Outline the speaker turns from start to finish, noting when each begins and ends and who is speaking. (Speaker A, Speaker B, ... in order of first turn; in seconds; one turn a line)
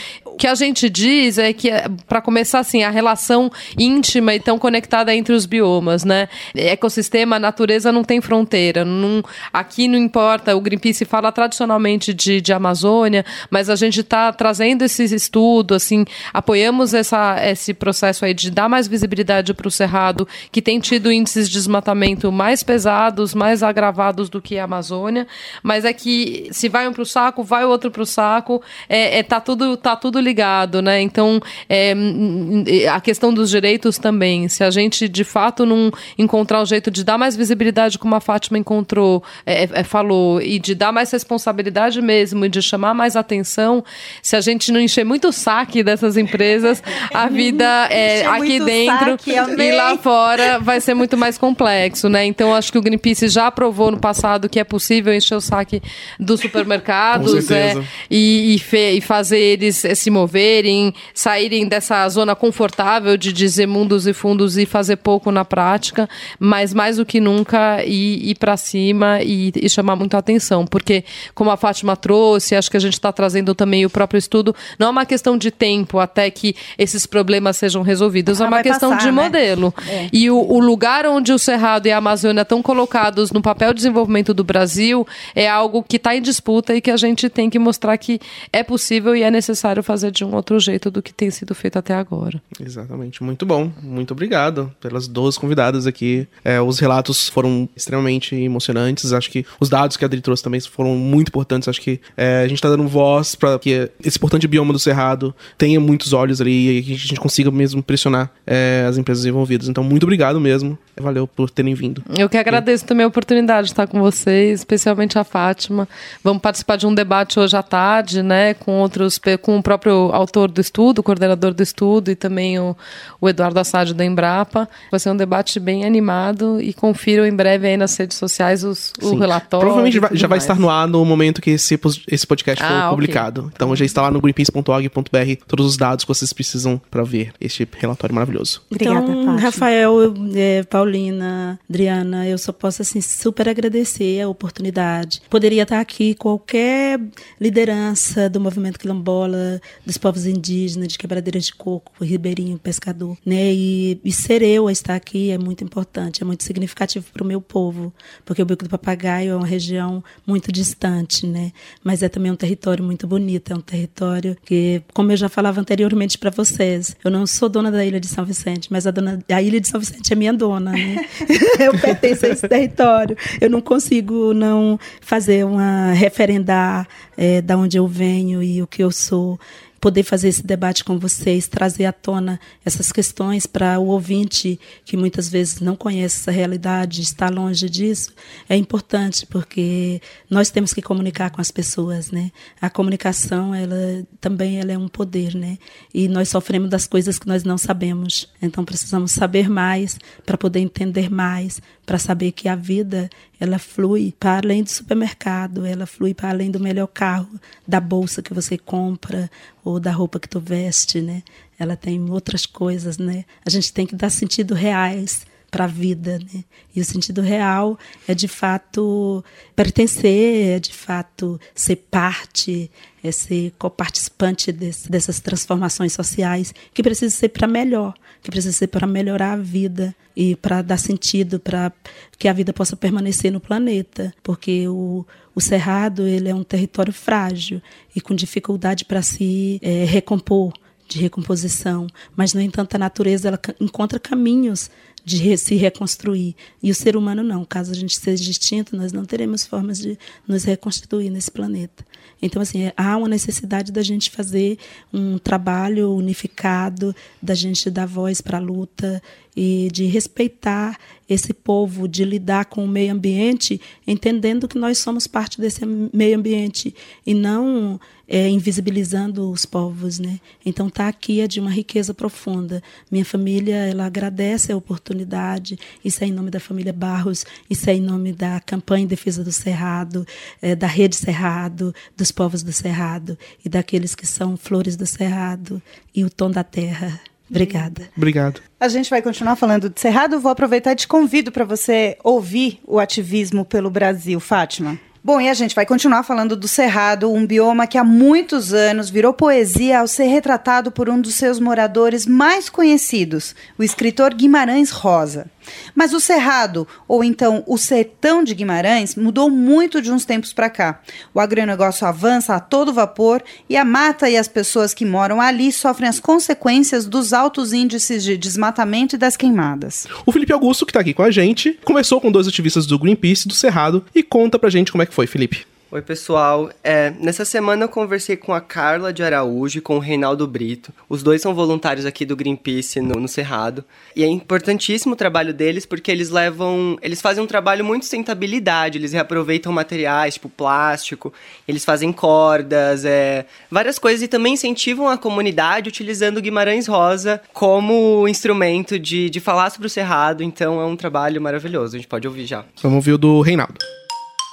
Speaker A: 0.4-92.4
Speaker B: 47.2-50.0
Speaker C: 57.1-57.9
Speaker B: 78.3-80.1
Speaker C: 92.6-112.6
Speaker A: 112.1-130.6
Speaker C: 129.0-138.7
Speaker A: 132.6-133.2
Speaker D: 138.7-287.9
Speaker B: 138.8-139.6
Speaker B: 287.3-287.6
Speaker C: 288.0-288.4
Speaker B: 288.6-319.9
Speaker C: 320.0-325.5
Speaker E: 325.7-352.5
Speaker C: 352.6-353.6